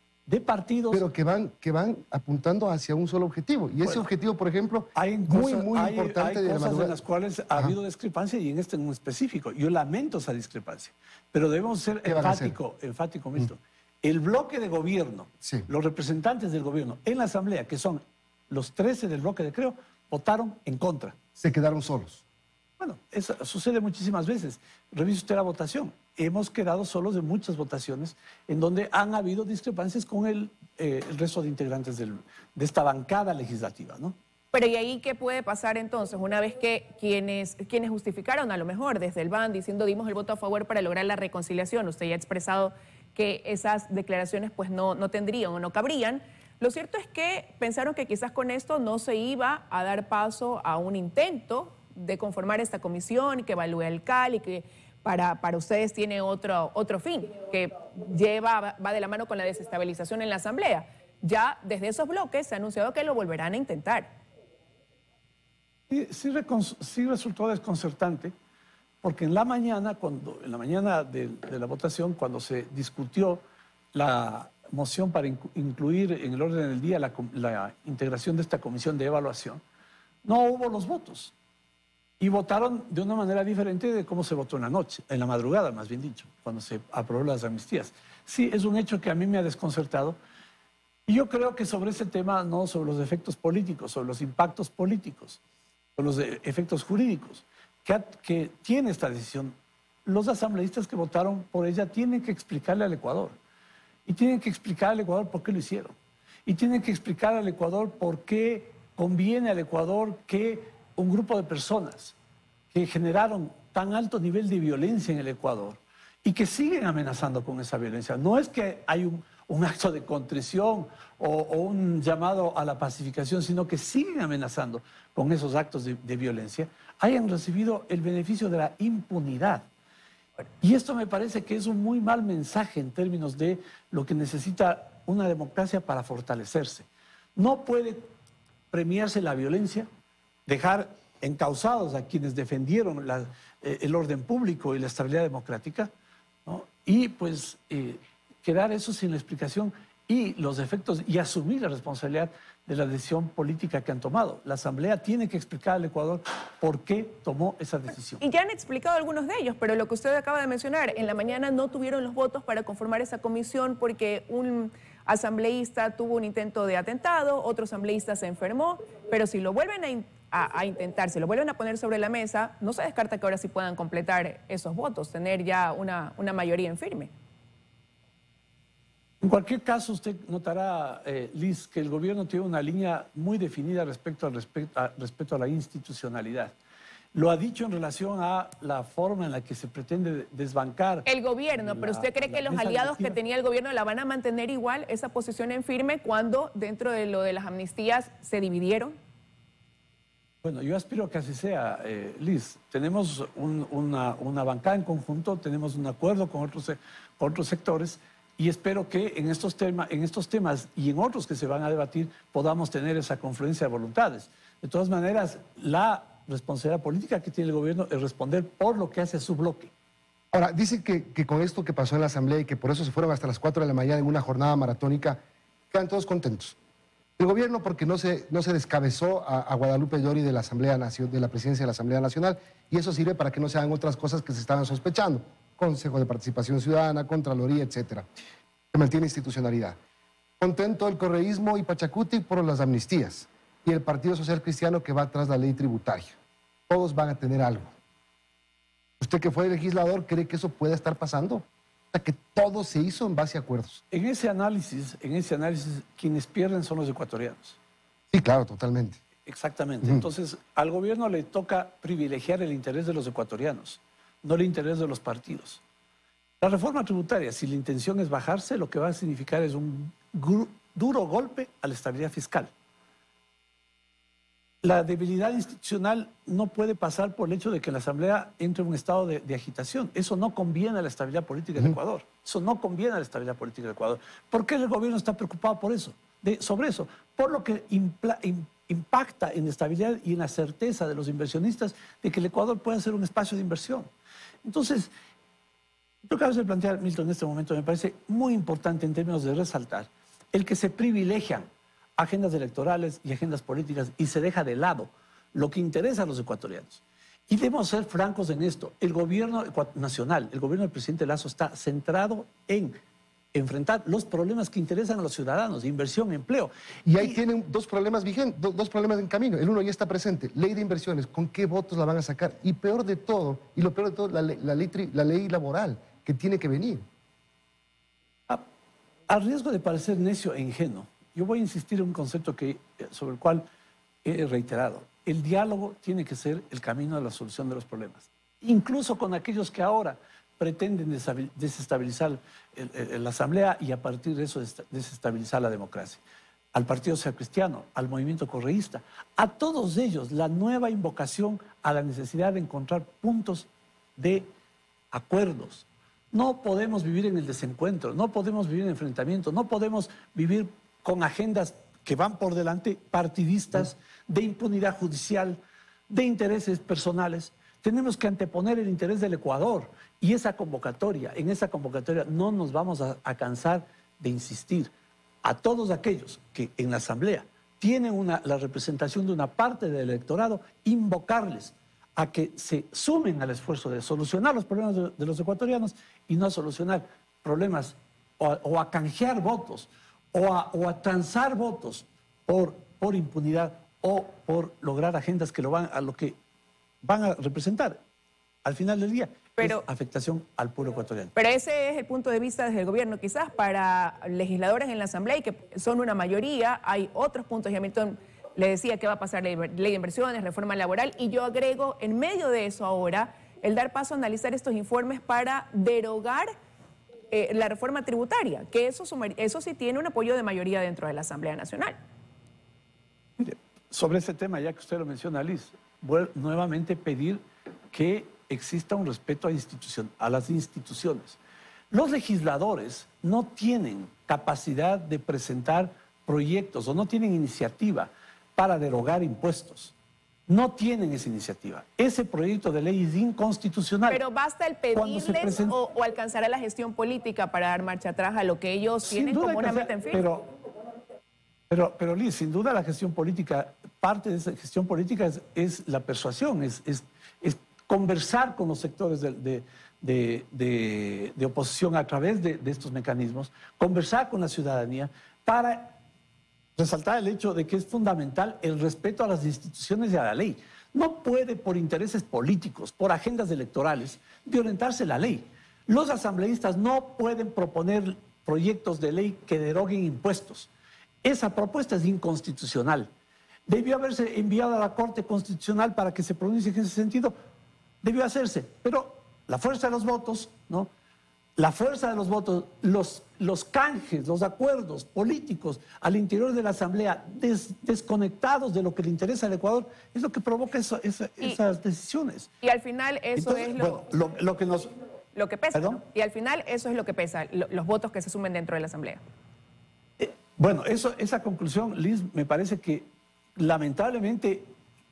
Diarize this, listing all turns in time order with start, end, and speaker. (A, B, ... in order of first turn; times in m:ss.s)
0:00.3-0:01.1 A
0:00.9-0:07.0 B
0:03.8-0:04.1 A
0:05.0-0:21.2 A
0:12.0-0:12.6 B
0:15.4-0:15.7 B
0:21.4-0:22.2 B
0:22.8-0:34.2 A
0:34.5-1:04.1 C
1:05.9-1:08.3 A
1:09.0-1:13.4 A
1:13.9-1:19.6 A
1:20.2-1:21.3 A
1:22.2-1:30.2 A
1:31.1-1:35.4 A
1:36.0-1:39.6 A
1:40.1-1:43.4 A
1:44.1-1:52.2 A
1:52.7-2:09.7 A
2:10.6-2:18.0 A
2:18.7-2:19.9 A
2:20.5-2:25.9 A
2:26.5-2:38.2 A
2:38.2-2:57.1 C
2:59.2-3:06.5 A
3:07.1-3:13.2 A
3:11.0-3:19.0 C
3:20.4-3:39.7 A
3:40.3-3:45.2 B
3:45.7-3:46.6 B
3:47.2-3:58.1 B
3:58.7-3:59.8 B
4:00.4-4:06.2 B
4:06.7-4:07.7 B
4:09.0-4:13.8 B
4:13.9-4:17.6 A
4:18.1-4:19.0 B
4:19.3-4:25.6 A
4:26.4-4:32.5 A
4:34.6-4:53.9 A
4:54.4-4:54.9 A
4:56.0-5:01.5 A
5:02.0-5:12.8 A
5:13.3-5:17.2 A
5:16.8-5:26.8 B
5:29.1-5:33.4 A
5:34.0-5:46.0 A
5:46.5-5:54.3 A
5:54.9-6:14.7 A
6:15.2-6:36.2 A
6:36.8-6:37.8 A
6:38.4-6:41.1 A
6:39.4-6:39.6 C
6:41.2-6:56.3 C
6:57.1-7:01.8 C
7:03.2-7:11.2 A
7:11.7-7:19.7 A
7:20.3-7:24.0 A
7:23.9-7:30.0 C
7:24.7-7:25.6 A
7:28.9-7:30.3 A
7:31.5-7:45.8 A
7:46.6-8:00.5 A
8:01.0-8:02.9 A
8:03.5-8:07.1 A
8:07.8-8:10.7 A
8:11.4-8:22.3 A
8:22.4-8:23.9 C
8:23.2-8:24.7 A
8:25.2-8:29.0 C
8:25.6-8:25.8 A
8:30.0-8:32.9 A
8:33.4-8:34.5 A